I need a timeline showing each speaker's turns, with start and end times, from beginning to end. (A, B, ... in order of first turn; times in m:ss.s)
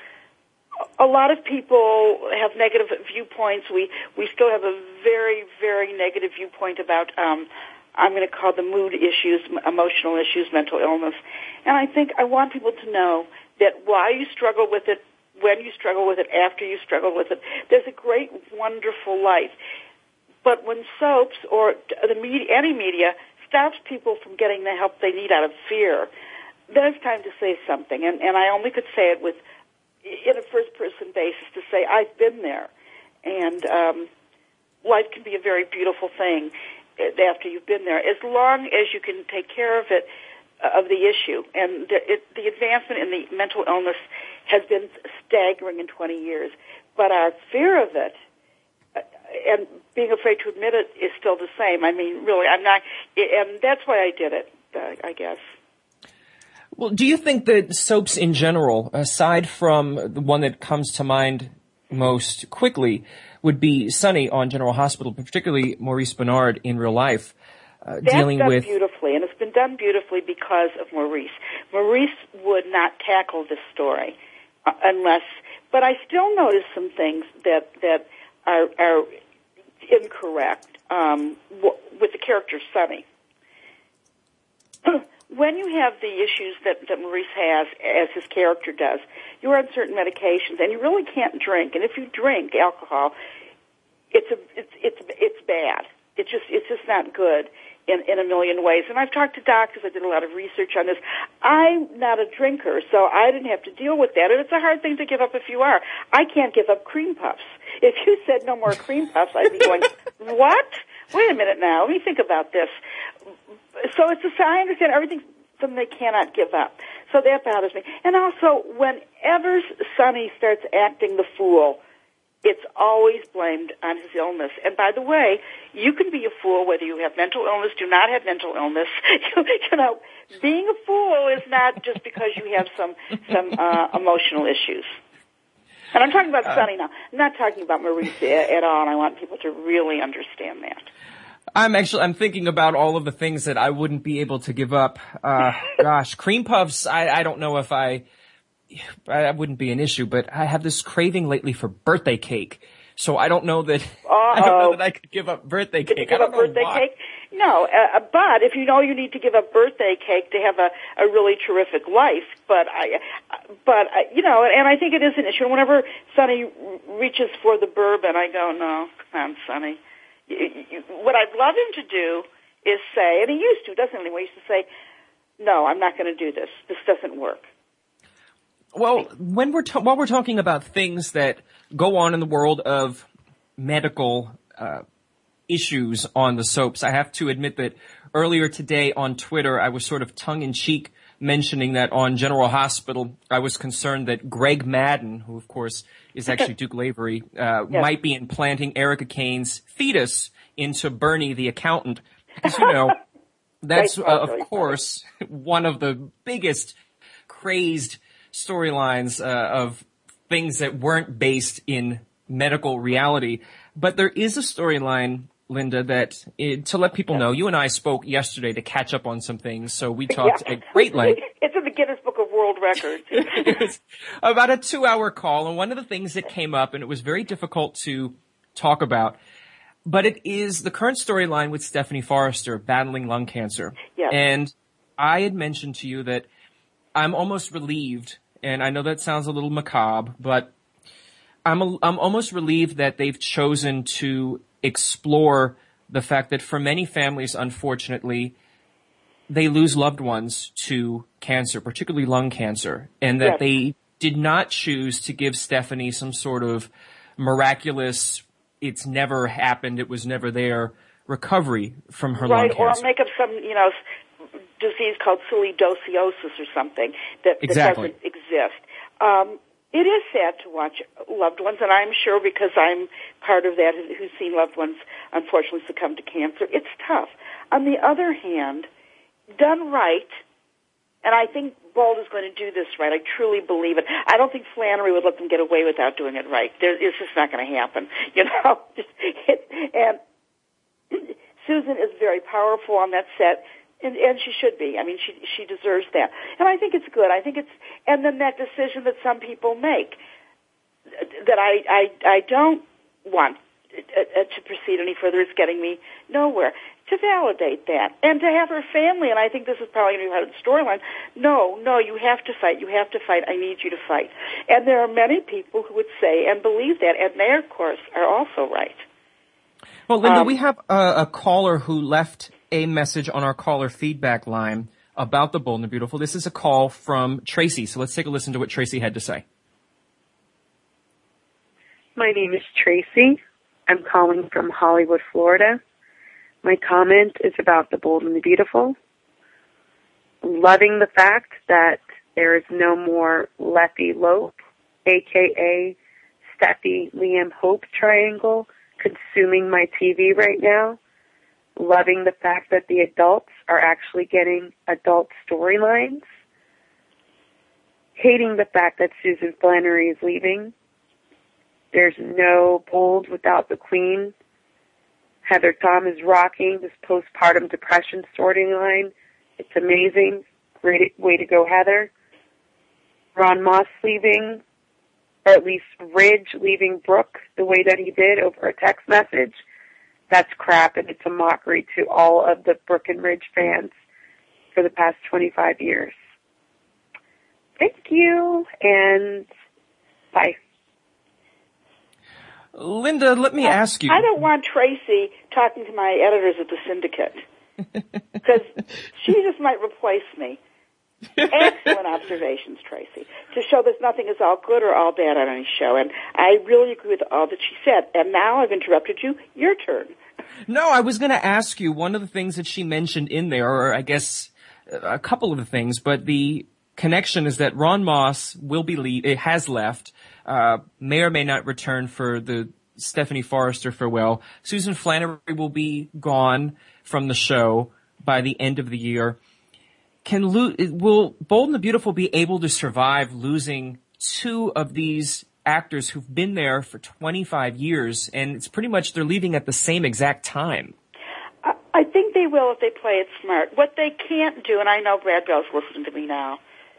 0:01.0-0:19.6 A
0:20.4-0:26.1 A
0:26.7-0:29.4 A
0:30.0-0:32.7 A
0:33.2-0:34.1 A
0:34.8-0:40.1 A
0:40.6-0:48.2 A
0:49.0-0:55.4 A
0:56.8-1:07.3 B
1:07.8-1:08.7 B
1:08.0-1:14.2 A
1:14.7-1:19.1 A
1:19.8-1:23.0 A
1:24.8-1:33.2 A
1:34.1-1:52.7 A
1:53.8-2:01.8 A
2:02.4-2:15.0 A
2:15.9-2:20.9 A
2:21.6-2:28.0 B
2:28.7-2:36.8 B
2:34.1-2:34.8 A
2:35.9-2:54.7 A
2:55.4-2:57.5 A
2:58.7-3:03.1 B
3:03.6-3:04.8 B
3:05.5-3:23.0 B
3:22.4-3:22.7 A
3:23.6-3:26.8 B
3:23.8-3:24.7 A
3:27.3-3:41.2 B
3:40.1-3:43.6 A
3:43.1-3:49.2 B
3:49.9-3:56.3 B
3:57.0-4:00.5 B
4:01.5-4:08.4 B
4:09.3-4:22.9 B
4:22.2-4:23.8 A
4:24.6-4:38.7 A
4:27.4-4:27.9 B
4:39.4-4:40.2 A
4:41.0-4:50.0 A
4:50.9-5:00.0 A
5:01.0-5:18.8 A
5:19.9-5:29.2 B
5:20.0-5:20.4 A
5:32.0-5:35.6 C
5:36.4-5:38.8 C
5:40.2-5:45.8 C
5:46.4-5:50.8 C
5:51.6-5:56.0 C
5:58.0-6:00.5 C
6:01.7-6:04.1 C
6:05.2-6:11.9 C
6:13.2-6:14.4 C
6:15.2-6:19.4 C
6:20.1-6:23.8 C
6:24.5-6:26.0 C
6:27.6-6:29.3 C
6:32.5-6:34.1 B
6:33.4-6:37.2 A
6:38.2-6:40.4 A
6:41.2-6:41.7 B
6:41.3-6:50.0 A
6:50.5-7:09.2 B
7:10.0-7:20.8 B
7:21.4-7:26.4 A